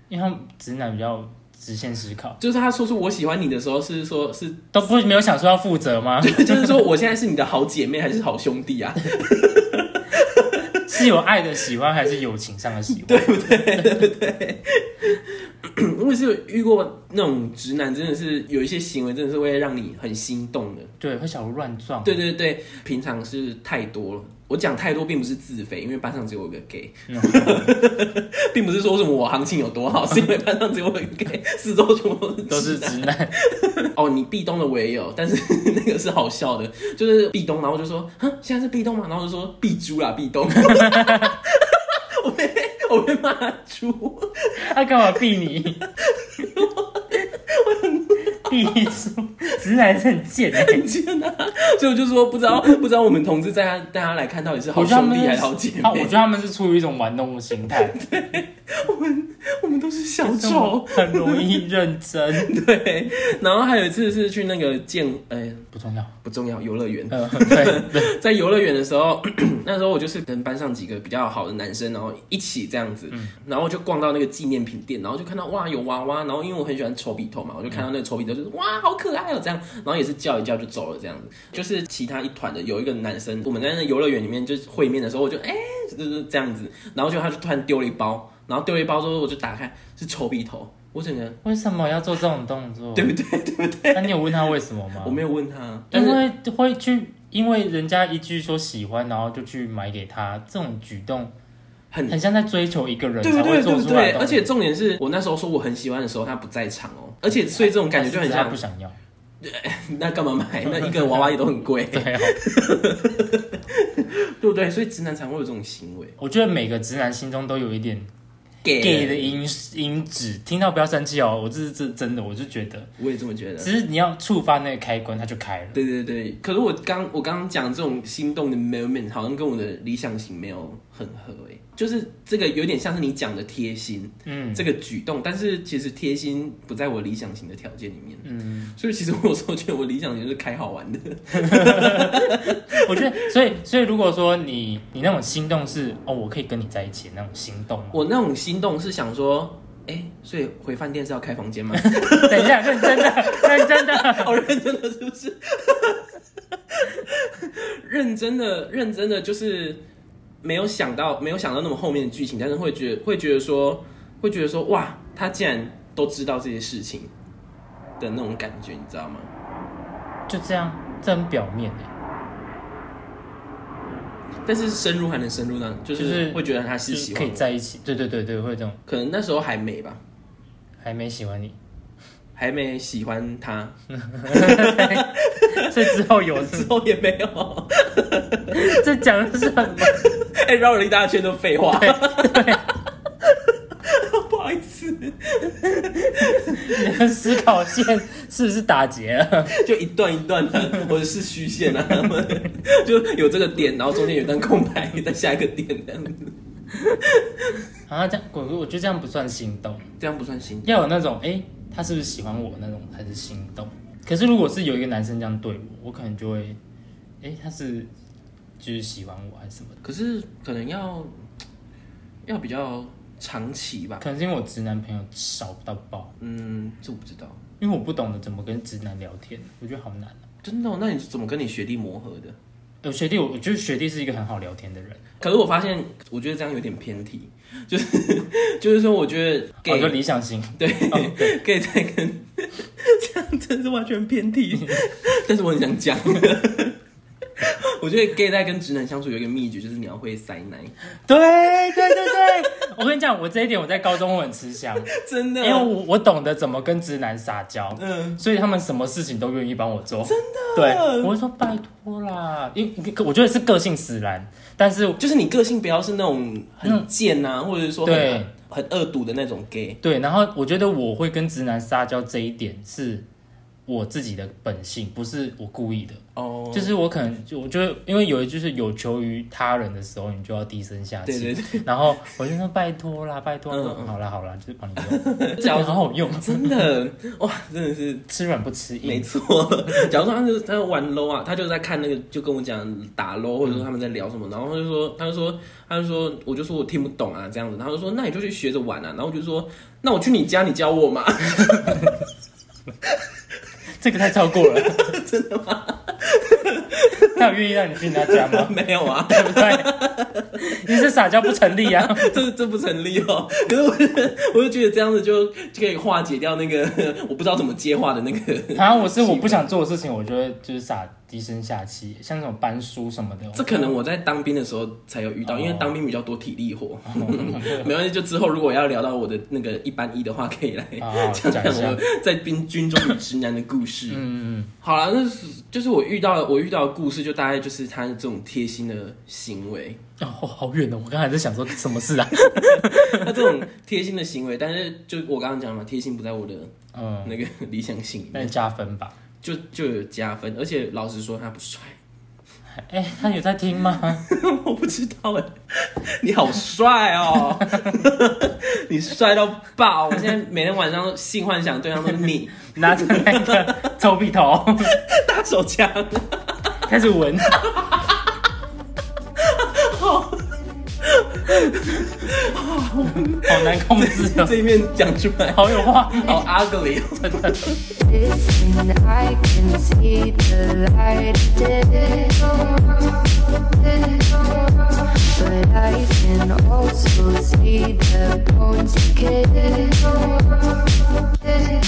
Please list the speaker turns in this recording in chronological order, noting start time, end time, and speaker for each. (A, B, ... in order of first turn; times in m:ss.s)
0:00.1-0:02.4 A
0:02.4-0:04.8 B
0:04.7-0:06.8 A
0:06.2-0:10.8 B
0:10.8-0:14.0 A
0:12.9-0:20.9 B
0:21.0-0:22.3 A
0:22.0-0:44.5 B
0:27.1-0:27.7 A
0:32.5-0:33.3 A
0:40.6-0:41.4 A
0:44.6-0:45.8 A
0:46.0-0:48.8 B
0:48.4-0:50.8 A
0:50.5-0:56.1 B
0:54.7-0:58.0 A
0:57.7-1:01.6 B
1:00.2-1:02.5 A
1:02.3-1:05.7 B
1:05.7-1:06.2 A
1:06.2-1:31.4 B
1:07.1-1:08.1 A
1:31.4-1:33.2 A
1:32.9-1:36.2 B
1:33.9-1:35.2 A
1:35.9-1:41.3 A
1:41.9-1:42.2 B
1:42.1-1:44.5 A
1:43.2-1:48.6 B
1:47.5-1:49.0 A
1:49.4-1:56.2 B
1:50.6-1:51.3 A
1:51.9-1:52.4 A
1:56.2-1:58.1 A
1:58.6-1:59.4 B
1:58.8-2:02.9 A
2:03.0-2:03.7 B
2:03.6-2:05.8 A
2:05.7-2:23.2 B
2:14.2-2:14.7 A
2:18.2-2:18.8 A
2:21.3-2:28.0 A
2:27.9-2:39.8 B
2:31.7-2:34.4 A
2:40.4-2:47.1 B
2:48.0-2:49.3 B
2:50.3-2:51.9 A
2:54.4-2:57.5 B
2:56.0-2:58.8 A
2:58.9-3:00.0 B
3:00.8-3:01.6 A
3:02.4-3:08.8 B
3:03.9-3:06.7 A
3:08.5-3:10.0 A
3:09.8-3:12.6 B
3:11.7-3:12.7 A
3:13.2-3:17.4 B
3:15.8-3:19.5 A
3:19.5-3:27.6 B
3:27.9-3:29.9 A
3:30.0-3:30.8 B
3:30.6-3:36.6 A
3:37.2-3:37.9 A
3:38.6-3:39.8 A
3:39.8-3:41.1 B
3:42.2-3:44.0 B
3:44.0-3:46.1 A
3:46.2-3:47.4 B
3:47.6-3:50.2 A
3:50.4-3:52.4 B
3:52.8-3:55.0 A
3:55.2-4:00.0 B
3:59.6-4:01.4 A
4:00.6-4:06.8 B
4:04.6-4:04.8 A
4:07.4-4:10.7 B
4:11.0-4:25.0 A
4:11.9-4:12.4 B
4:14.9-4:15.7 B
4:17.8-4:18.2 B
4:20.0-4:21.1 B
4:25.0-4:29.8 B
4:27.8-4:28.3 A
4:29.8-4:33.0 A
4:33.7-4:46.7 A
4:36.2-4:36.7 B
4:41.0-4:41.6 B
4:43.5-4:43.9 B
4:44.8-4:48.1 B
4:48.1-4:49.1 A
4:48.8-5:02.0 B
5:01.5-5:01.9 A
5:03.8-5:05.0 A
5:04.3-5:10.4 B
5:07.0-5:08.6 A
5:09.1-5:09.7 A
5:10.4-5:12.2 A
5:11.5-5:19.5 B
5:18.5-5:23.7 A
5:23.3-5:34.0 B
5:25.2-5:25.7 A
5:26.8-5:27.7 A
5:30.8-5:31.8 A
5:33.9-5:34.5 A
5:34.6-5:39.8 B
5:40.0-5:43.3 A
5:42.3-5:46.5 B
5:46.7-5:47.2 A
5:47.0-5:48.3 B
5:48.1-5:48.9 A
5:49.2-5:51.8 B
5:52.6-5:54.0 A
5:53.9-6:03.7 B
5:57.5-5:57.7 A
6:02.5-6:04.8 A
6:04.7-6:06.4 B
6:06.6-6:07.5 A
6:07.4-6:08.2 B
6:09.2-6:17.6 B
6:13.1-6:14.4 A
6:15.3-6:16.3 A
6:17.0-6:17.4 A
6:17.8-6:30.7 C